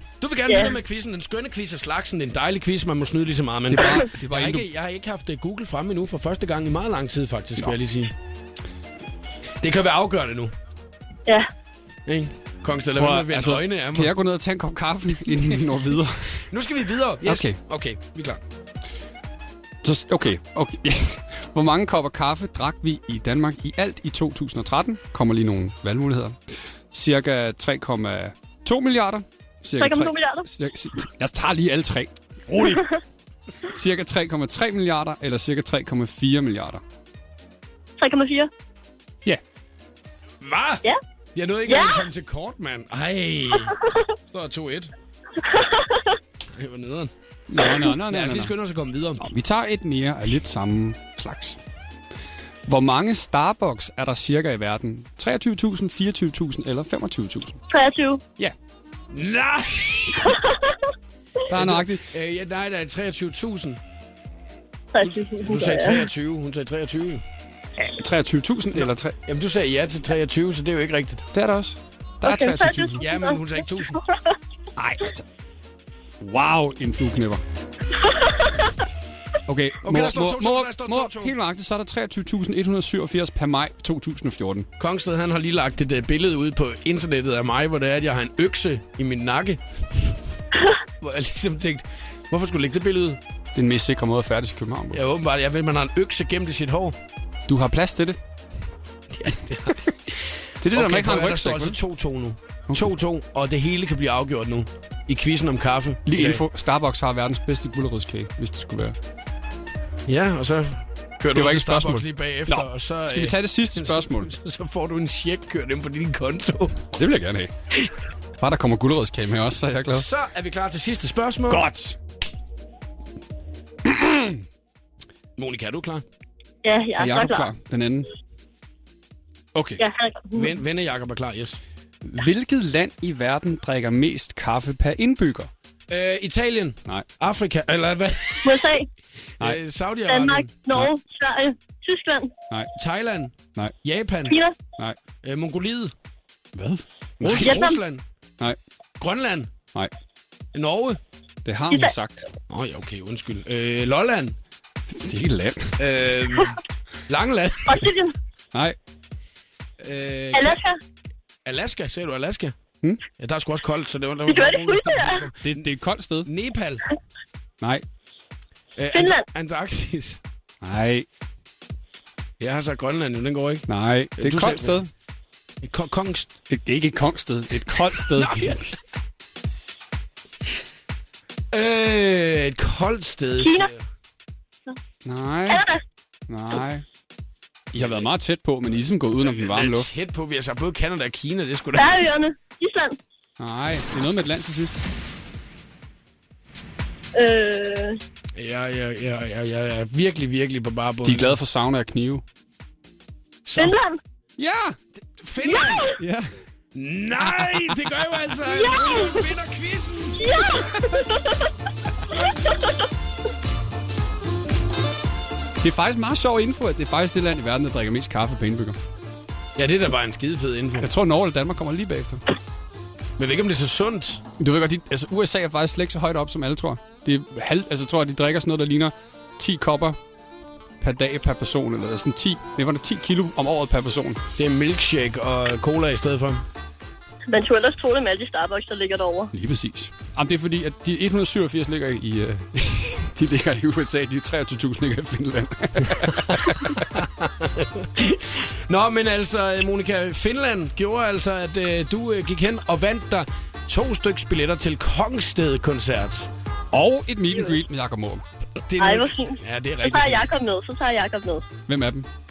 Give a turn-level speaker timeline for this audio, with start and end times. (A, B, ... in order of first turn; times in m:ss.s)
0:00.2-0:08.1 A
0:00.5-0:00.7 B
0:03.7-0:04.7 C
0:09.6-0:10.5 A
0:12.0-0:14.1 A
0:13.0-0:16.4 C
0:16.5-0:18.4 A
0:17.2-0:17.6 C
0:19.8-0:32.8 C
0:29.8-0:30.5 B
0:33.7-0:36.8 C
0:38.0-0:38.5 B
0:40.4-0:44.9 A
0:41.7-0:42.0 B
0:43.7-0:44.1 B
0:45.4-0:46.2 B
0:46.5-0:47.1 A
0:47.5-0:48.5 C
0:47.8-0:49.2 A
0:49.2-0:51.6 C
0:52.7-0:57.6 C
0:57.7-0:58.2 B
0:59.1-1:00.4 A
1:00.3-1:00.8 B
1:01.5-1:02.1 C
1:01.5-1:03.8 A
1:04.9-1:06.0 B
1:05.0-1:07.2 A
1:07.8-1:09.1 C
1:08.8-1:11.3 A
1:11.3-1:13.0 C
1:12.2-1:13.4 B
1:13.0-1:14.0 A
1:13.9-1:14.3 B
1:14.8-1:15.2 C
1:16.2-1:17.4 C
1:18.0-1:18.7 B
1:19.5-1:24.7 C
1:19.8-1:21.3 A
1:24.8-1:30.2 A
1:31.0-1:33.2 A
1:33.5-1:35.0 C
1:34.9-1:37.0 A
1:37.5-1:38.2 C
1:39.1-1:39.8 A
1:40.6-1:41.8 C
1:40.7-1:46.4 A
1:46.0-1:49.0 C
1:50.1-1:56.8 A
1:51.3-1:54.3 C
1:57.0-1:57.5 C
1:58.4-2:00.1 C
1:59.9-2:01.6 A
2:01.5-2:02.0 C
2:03.8-2:04.4 C
2:05.4-2:06.0 A
2:06.6-2:07.5 B
2:07.0-2:08.1 C
2:09.5-2:09.8 C
2:09.8-2:10.5 B
2:10.3-2:11.6 A
2:12.0-2:15.5 C
2:15.9-2:18.7 A
2:18.4-2:18.9 B
2:19.4-2:20.5 A
2:20.1-2:22.3 B
2:22.8-2:24.4 A
2:24.3-2:24.6 B
2:25.2-2:25.9 A
2:26.5-2:27.7 C
2:27.2-2:28.0 A
2:27.4-2:27.8 B
2:29.0-2:29.5 A
2:30.5-2:31.0 A
2:31.4-2:32.2 C
2:31.7-2:31.9 B
2:32.5-2:34.4 A
2:34.9-2:35.8 C
2:35.8-2:37.8 A
2:37.6-2:38.1 B
2:39.8-2:40.6 A
2:40.3-2:40.8 B
2:41.4-2:42.5 A
2:43.2-2:45.6 A
2:44.3-2:45.2 B
2:45.4-2:46.3 C
2:46.2-2:46.8 A
2:48.8-2:50.2 A
2:48.9-2:49.2 B
2:50.6-2:51.1 C
2:52.4-2:53.7 A
2:53.7-2:54.9 C
2:54.2-2:54.8 A
2:55.6-2:56.3 A
2:56.5-2:58.6 C
2:57.9-2:58.8 A
3:01.5-3:03.8 A
3:03.4-3:03.7 B
3:05.0-3:05.6 C
3:05.5-3:05.8 B
3:06.3-3:06.8 C
3:07.7-3:09.9 C
3:07.8-3:08.1 A
3:09.2-3:12.1 A
3:11.8-3:13.0 B
3:13.4-3:14.8 C
3:17.1-3:18.0 B
3:18.4-3:21.3 A
3:21.0-3:22.2 C
3:23.4-3:23.8 A
3:23.6-3:24.0 B
3:24.4-3:24.8 C
3:25.2-3:25.9 A
3:25.4-3:25.9 B
3:26.0-3:26.3 C
3:26.7-3:30.2 A
3:27.2-3:27.8 C
3:28.5-3:29.2 B
3:30.2-3:31.5 B
3:32.4-3:32.8 B
3:35.6-3:38.8 C
3:39.6-3:40.9 A
3:40.8-3:42.2 C
3:43.2-3:44.2 A
3:44.4-3:50.0 C
3:50.8-3:54.2 C
3:54.4-3:56.4 A
3:57.3-3:59.3 B
3:59.3-4:06.9 C
4:07.0-4:16.3 A
4:16.7-4:18.2 C
4:17.3-4:17.6 B
4:18.7-4:20.3 A
4:18.8-4:21.5 B
4:21.7-4:22.1 C